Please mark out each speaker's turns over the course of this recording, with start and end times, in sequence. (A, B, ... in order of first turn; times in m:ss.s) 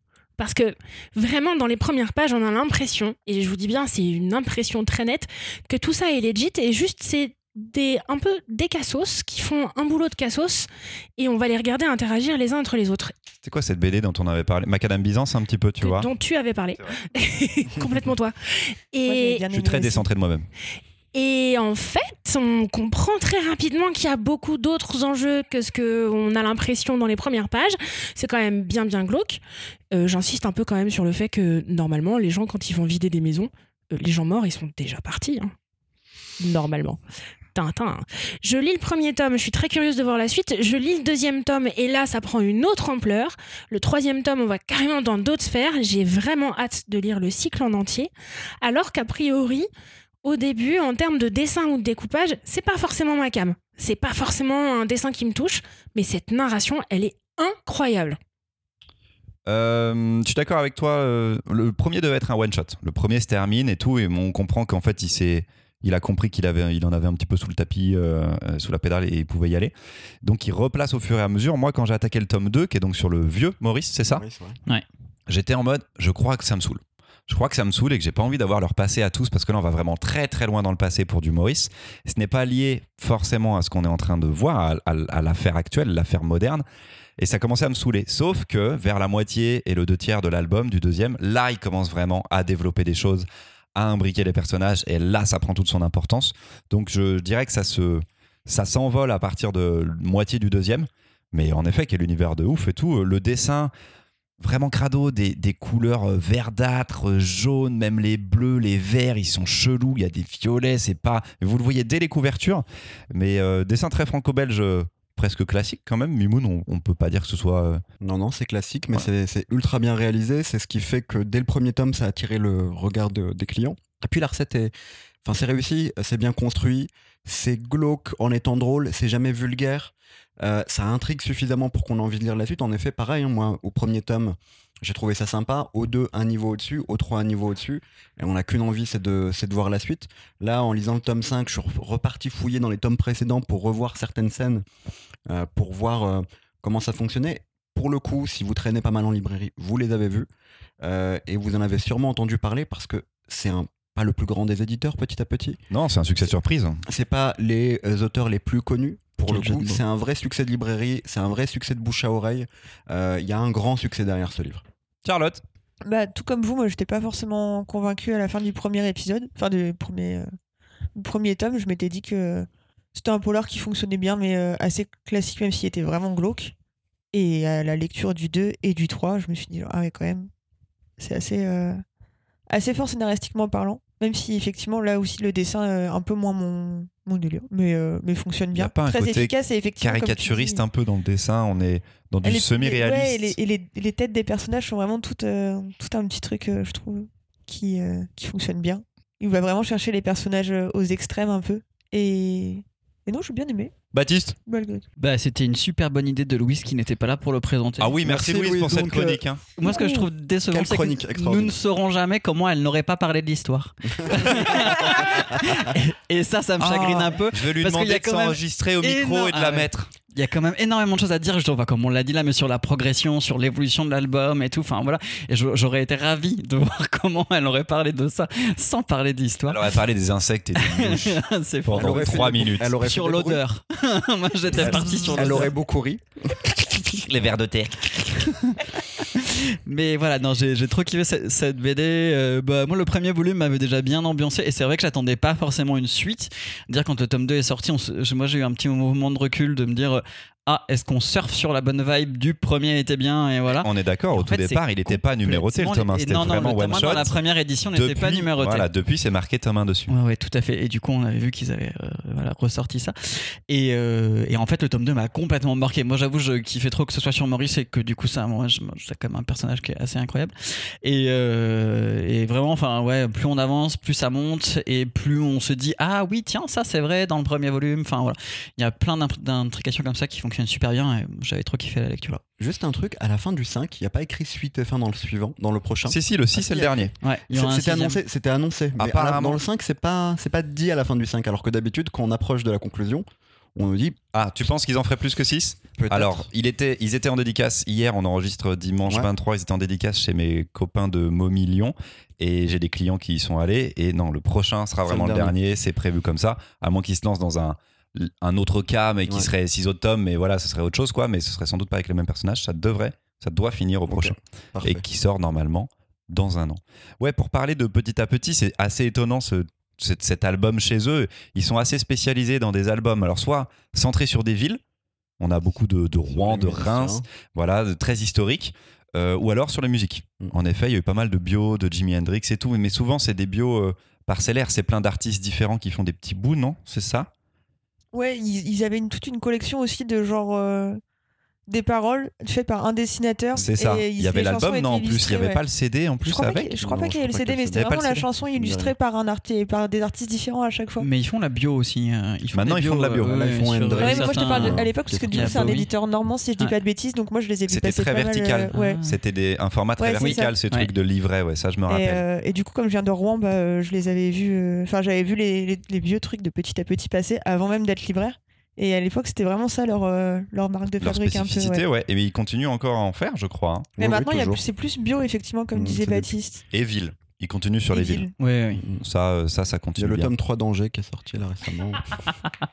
0:00.4-0:13.1 A
0:13.4-0:16.1 B
0:15.8-0:19.5 A
0:19.1-0:20.1 C
0:19.5-0:20.5 B
0:21.1-0:29.4 A
0:29.9-0:35.5 A
0:36.4-0:37.0 A
0:37.5-0:49.7 A
0:50.2-0:58.2 A
0:59.5-1:14.2 B
1:14.1-1:14.6 D
1:15.3-1:26.6 B
1:27.2-1:43.7 B
1:44.4-1:57.8 B
1:58.0-2:04.7 D
2:05.2-2:24.6 D
2:25.3-2:30.3 D
2:30.8-2:35.6 D
2:35.7-2:36.8 B
2:36.9-2:44.6 D
2:39.3-2:39.8 E
2:45.0-2:45.4 B
2:45.8-2:50.3 C
2:51.0-2:56.5 C
2:57.1-3:00.3 C
3:01.0-3:01.8 C
3:02.5-3:10.6 C
3:08.5-3:13.4 B
3:12.2-3:23.7 C
3:23.9-3:24.4 B
3:24.5-3:24.8 C
3:25.0-3:28.0 E
3:27.8-3:29.4 B
3:28.0-3:29.2 D
3:29.6-3:49.8 E
3:29.6-3:30.1 C
3:30.5-3:31.6 D
3:34.0-3:35.4 D
3:36.6-3:39.9 B
3:49.5-3:52.7 B
3:50.6-3:55.5 E
3:51.7-3:53.4 D
3:54.5-3:57.1 D
3:57.0-3:58.3 B
3:59.1-4:18.7 E
4:13.6-4:17.2 B
4:17.8-4:19.9 B
4:19.9-4:42.2 E
4:42.1-4:54.0 D
4:45.9-4:46.9 B
4:47.0-4:48.0 E
4:48.8-4:49.4 B
4:54.1-5:24.6 B
4:55.8-4:56.3 D
5:04.9-5:05.3 D
5:13.9-5:14.8 D
5:25.2-5:37.1 B
5:26.1-5:27.1 D
5:37.9-5:40.8 C
5:41.5-5:45.4 C
5:43.4-5:46.6 B
5:46.0-5:50.9 C
5:46.6-5:47.7 D
5:47.5-5:48.1 B
5:48.4-5:48.7 D
5:50.8-5:55.7 E
5:52.3-5:53.1 B
5:52.9-5:55.6 D
5:53.8-5:58.8 C
5:57.5-6:02.0 B
5:58.5-5:59.0 E
5:59.8-6:00.3 C
6:00.0-6:00.7 E
6:01.7-6:11.6 C
6:10.8-6:13.7 B
6:13.8-6:14.4 D
6:13.8-6:16.4 C
6:15.5-6:16.1 D
6:16.5-6:18.1 B
6:17.7-6:18.1 C
6:18.2-6:18.6 E
6:18.6-6:18.8 D
6:18.8-6:20.1 B
6:19.8-6:22.1 D